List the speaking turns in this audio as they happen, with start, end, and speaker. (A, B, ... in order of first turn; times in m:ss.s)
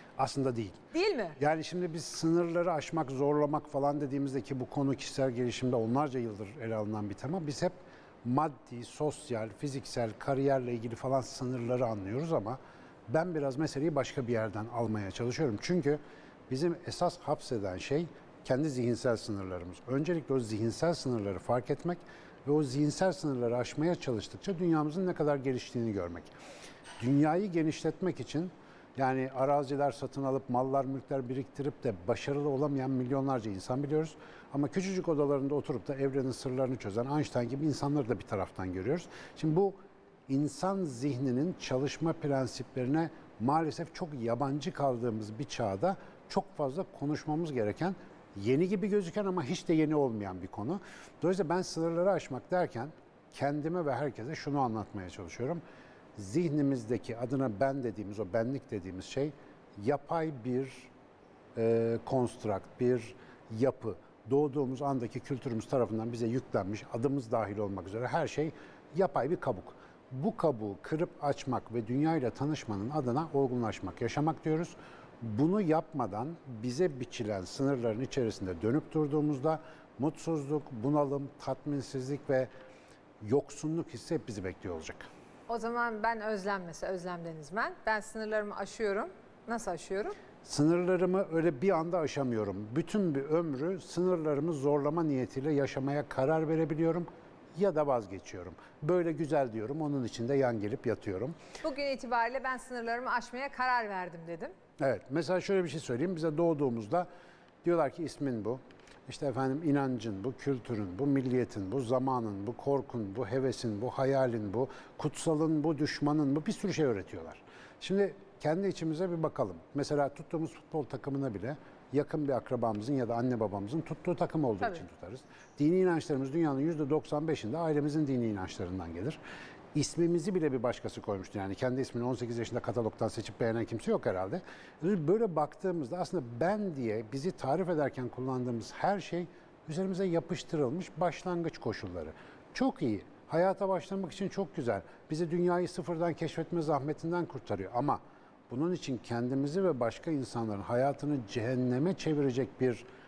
0:00.2-0:00.8 A
0:00.9-0:01.4 B
0:01.4-0:26.3 A
0:27.0-0:55.6 A
0:56.2-1:00.9 A
1:01.6-1:22.5 A
1:23.2-1:25.1 A
1:25.5-1:30.2 B
1:30.4-1:41.4 A
1:41.6-1:44.5 B
1:44.8-1:47.1 A
1:47.6-2:09.2 A
2:09.7-2:32.8 A